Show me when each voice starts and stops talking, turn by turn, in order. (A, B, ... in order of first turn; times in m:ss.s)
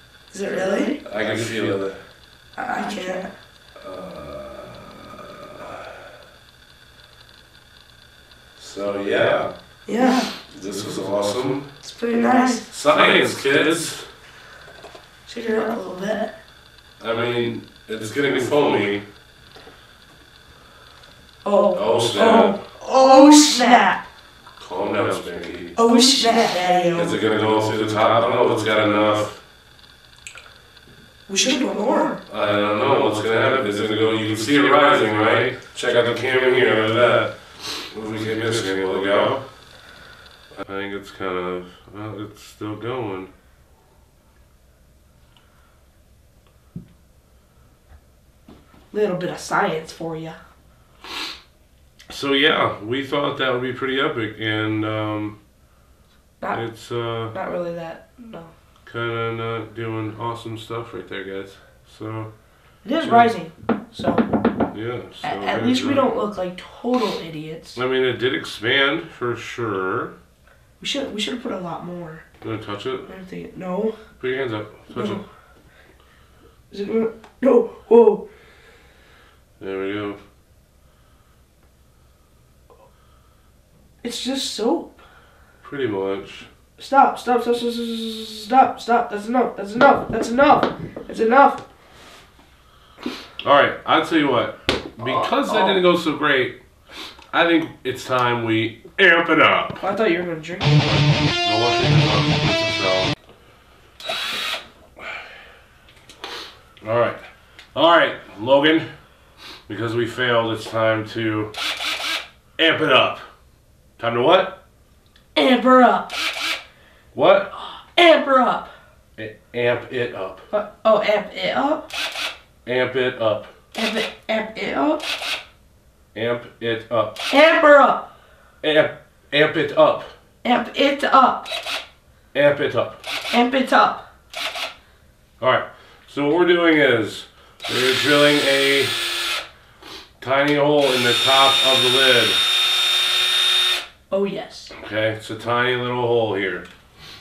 0:00.3-0:01.0 A
0:01.0-0:02.0 B
0:02.6-0:03.3 A
0:03.8-0:05.8 B
0:08.6-0:09.5 B
0:09.9-0:10.3 A
0:10.5-0:11.7 B
0:11.8-0:12.7 A
0:12.7-0:14.1 B
0:15.3-0:16.3 A
0:17.0-0:19.1 B
0:21.4-0:24.0 A
0:21.7-0:22.6 B
0:24.6-0:25.8 B
0:25.8-0:27.2 A
0:26.9-0:29.4 B
0:31.3-0:32.2 A
0:32.3-0:37.4 B
0:37.9-0:39.4 B
0:40.6-0:43.3 B
0:48.9-0:50.4 A
0:52.1-0:55.4 B
0:56.5-0:57.3 B
0:57.2-0:58.5 A
0:58.8-1:02.3 B
1:02.8-1:04.3 A
1:03.0-1:03.3 B
1:04.7-1:06.1 B
1:05.2-1:07.8 A
1:07.8-1:10.1 B
1:10.8-1:12.2 A
1:12.4-1:13.1 B
1:13.1-1:14.0 A
1:14.2-1:15.2 B
1:14.9-1:15.2 A
1:16.7-1:18.2 A
1:19.6-1:20.2 B
1:24.0-1:25.0 A
1:25.6-1:26.5 B
1:26.8-1:31.6 A
1:33.4-1:36.6 B
1:35.0-1:35.8 A
1:37.3-1:39.8 B
1:39.8-1:41.0 A
1:41.4-1:43.1 B
1:46.8-1:47.2 B
1:47.7-1:48.9 B
1:49.7-1:51.5 B
1:52.6-1:53.2 B
1:54.0-1:54.6 B
1:55.3-1:56.1 A
1:57.1-1:57.5 B
1:57.6-1:58.7 A
1:59.2-2:00.4 B
2:00.5-2:01.9 A
2:02.6-2:03.5 B
2:03.7-2:05.0 A
2:06.1-2:07.2 B
2:07.3-2:08.1 A
2:08.6-2:10.1 B
2:10.4-2:11.5 A
2:12.3-2:13.0 B
2:13.3-2:14.0 A
2:15.4-2:19.2 B
2:20.2-2:22.4 B
2:24.1-2:24.7 A
2:24.7-2:26.7 B